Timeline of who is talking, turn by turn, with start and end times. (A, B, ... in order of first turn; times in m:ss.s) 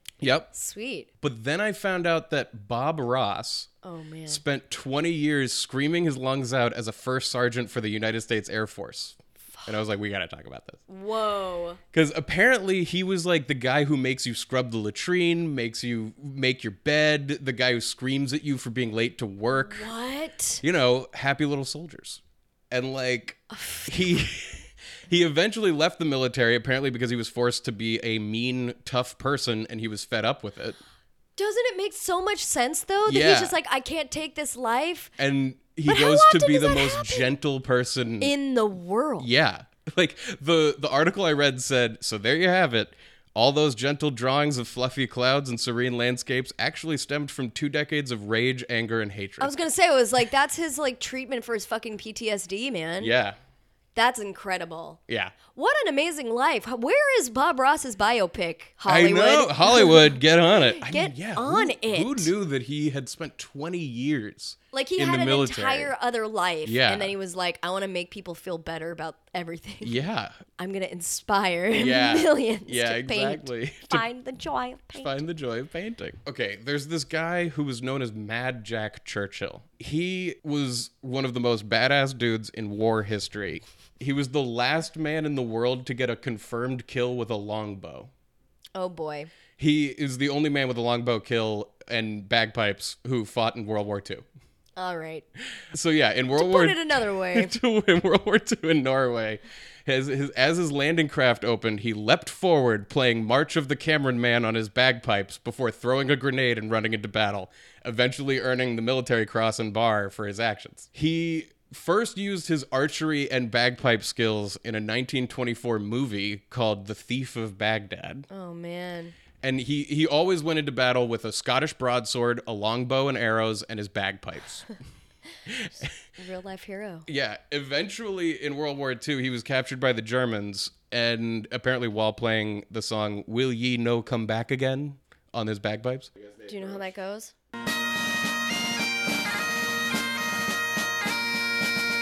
0:00.2-0:00.5 A
0:00.5-0:01.1 B
0:01.2-0:03.7 A
0:03.8-0:04.4 B
0:04.3-0:10.8 A
0:10.9-0:11.8 B
0:11.9-0:19.9 A
0:19.5-0:20.6 B
0:20.6-0:30.8 A
0:23.5-0:24.2 B
0:31.4-0:35.1 B
0:33.1-0:33.6 A
0:35.2-0:38.3 A
0:35.9-0:37.3 B
0:38.2-0:39.3 B
0:39.2-0:49.6 A
0:49.4-0:53.1 B
0:53.0-0:53.4 A
0:54.0-1:02.3 B
0:55.1-0:55.4 A
0:58.9-1:05.9 A
1:04.7-1:10.0 B
1:06.6-1:07.1 A
1:09.8-1:10.4 A
1:10.6-1:15.2 B
1:11.8-1:14.1 A
1:15.0-1:28.1 A
1:28.8-1:29.3 B
1:29.6-1:34.2 A
1:34.8-1:35.3 B
1:35.7-1:58.3 A
1:36.3-1:37.5 B
1:58.3-1:59.2 B
1:59.4-2:04.7 A
2:05.5-2:05.9 A
2:06.2-2:07.1 B
2:07.1-2:16.9 A
2:16.5-2:17.3 B